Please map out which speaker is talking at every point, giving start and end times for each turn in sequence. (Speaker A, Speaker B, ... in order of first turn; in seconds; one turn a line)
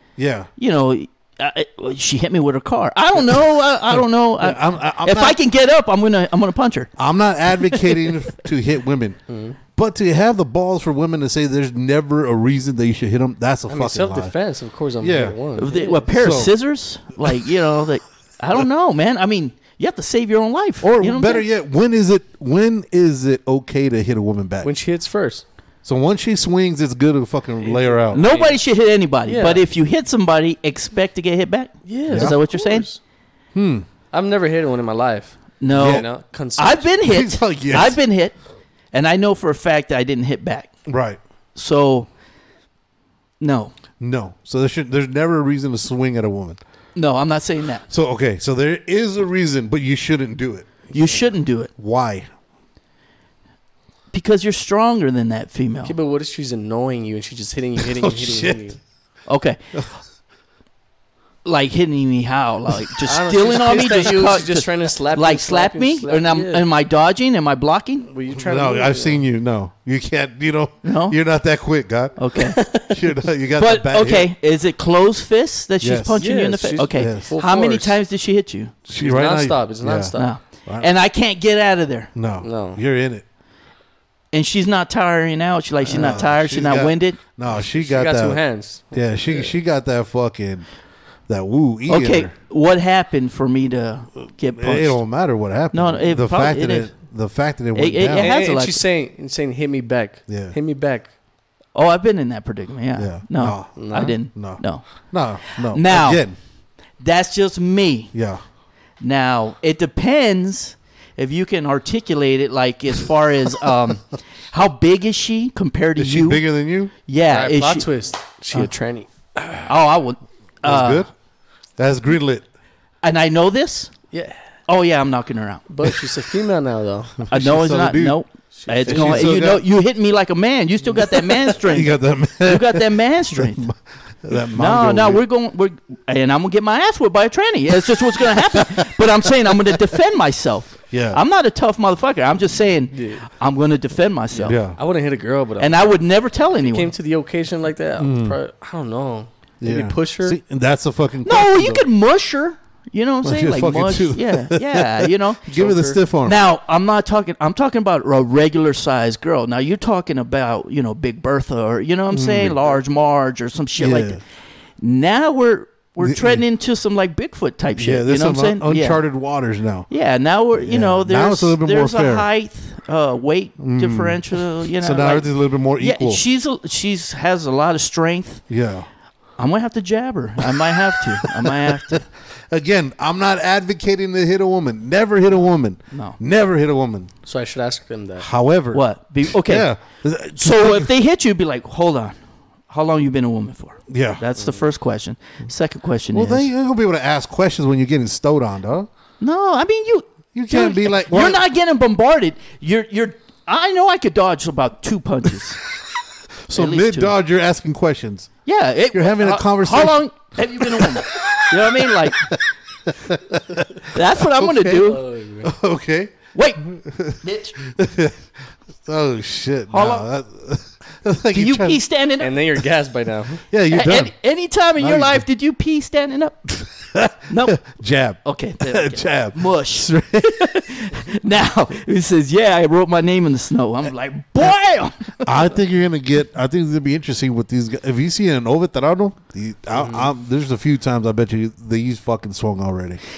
Speaker A: 0.2-0.5
Speaker B: 0.6-6.9
Speaker A: 3.3-5.4
Speaker A: 7.0-9.2
Speaker B: 7.5-8.1
Speaker C: 9.3-9.6
Speaker A: 9.8-14.3
Speaker C: 13.7-16.1
Speaker A: 15.0-15.4
Speaker B: 15.6-21.4
Speaker A: 16.1-16.6
Speaker A: 20.8-24.7
Speaker C: 24.6-25.4
Speaker A: 25.9-28.2
Speaker C: 27.6-28.6
Speaker B: 28.1-32.9
Speaker C: 29.3-29.6
Speaker C: 31.9-33.0
Speaker A: 32.1-32.4
Speaker A: 33.5-33.9
Speaker C: 34.1-36.9
Speaker B: 35.6-38.4
Speaker A: 35.7-36.1
Speaker A: 37.1-38.0
Speaker B: 38.9-40.7
Speaker A: 40.9-41.2
Speaker B: 41.6-42.1
Speaker B: 43.4-43.7
Speaker A: 44.0-46.6
Speaker B: 47.0-47.9
Speaker A: 47.9-50.7
Speaker B: 50.9-51.7
Speaker A: 51.8-52.3
Speaker B: 54.1-55.9
Speaker C: 55.8-58.8
Speaker A: 57.8-58.6
Speaker B: 59.3-59.6
Speaker B: 61.5-68.1
Speaker C: 63.0-66.7
Speaker C: 68.1-69.2
Speaker A: 68.3-72.2
Speaker B: 70.8-71.2
Speaker B: 72.2-72.7
Speaker C: 72.5-72.9
Speaker A: 72.7-74.3
Speaker B: 73.6-78.7
Speaker A: 75.8-76.2
Speaker C: 76.2-78.0
Speaker A: 76.9-77.3
Speaker A: 78.9-80.9
Speaker C: 78.9-80.4
Speaker B: 80.2-82.1
Speaker A: 82.2-83.2
Speaker C: 82.4-82.8
Speaker B: 84.3-87.2
Speaker A: 85.9-90.7
Speaker C: 87.6-89.5
Speaker A: 91.3-92.3
Speaker B: 91.9-95.0
Speaker A: 94.5-98.3
Speaker B: 95.7-96.9
Speaker B: 97.7-98.8
Speaker C: 98.1-101.1
Speaker A: 100.3-100.5
Speaker B: 101.7-104.9
Speaker A: 103.0-106.3
Speaker C: 103.8-104.2
Speaker B: 105.4-106.2
Speaker B: 107.0-108.1
Speaker A: 108.1-108.4
Speaker B: 109.0-116.4
Speaker A: 116.0-116.9
Speaker B: 117.1-117.9
Speaker C: 117.3-119.1
Speaker B: 119.6-121.1
Speaker A: 120.6-121.1
Speaker A: 121.8-122.5
Speaker B: 123.0-123.9
Speaker C: 124.1-124.4
Speaker B: 124.7-125.6
Speaker C: 125.7-127.2
Speaker A: 127.3-128.2
Speaker B: 127.3-133.7
Speaker C: 128.5-129.3
Speaker A: 128.9-129.6
Speaker A: 131.6-135.2
Speaker B: 134.6-144.6
Speaker A: 140.9-141.2
Speaker C: 142.9-143.2
Speaker A: 144.4-144.8
Speaker C: 144.7-145.9
Speaker B: 145.6-146.9
Speaker C: 146.6-150.4
Speaker A: 148.0-148.4
Speaker A: 149.6-151.8
Speaker B: 151.2-155.4
Speaker A: 153.2-156.4
Speaker C: 155.5-156.0
Speaker B: 156.2-164.2
Speaker A: 162.1-162.6
Speaker A: 163.8-164.2
Speaker B: 164.8-169.0
Speaker A: 166.0-166.4
Speaker A: 167.8-169.9
Speaker B: 169.9-178.4
Speaker A: 170.6-172.3
Speaker A: 173.6-176.2
Speaker A: 178.5-178.9
Speaker B: 179.4-182.0
Speaker A: 181.0-187.1
Speaker B: 185.9-186.2
Speaker C: 187.3-188.3
Speaker A: 188.2-190.9
Speaker B: 188.7-189.7
Speaker B: 190.4-192.2
Speaker B: 192.7-196.5
Speaker A: 193.9-194.2
Speaker A: 196.1-198.9
Speaker B: 199.2-205.6
Speaker A: 200.3-201.4
Speaker A: 206.5-208.3
Speaker B: 206.5-207.2
Speaker B: 208.4-212.3
Speaker A: 208.9-210.0
Speaker A: 210.5-214.9
Speaker B: 213.9-215.0
Speaker C: 214.8-215.5
Speaker A: 215.4-218.2
Speaker B: 216.3-216.7
Speaker B: 217.2-217.6
Speaker A: 218.8-221.8
Speaker B: 219.7-220.1
Speaker B: 221.3-222.3
Speaker C: 222.2-223.4
Speaker A: 223.5-224.1
Speaker B: 223.7-226.6
Speaker A: 224.8-225.2
Speaker A: 226.9-230.5
Speaker B: 227.3-227.6
Speaker B: 228.2-235.3
Speaker A: 235.2-243.0
Speaker C: 239.7-240.1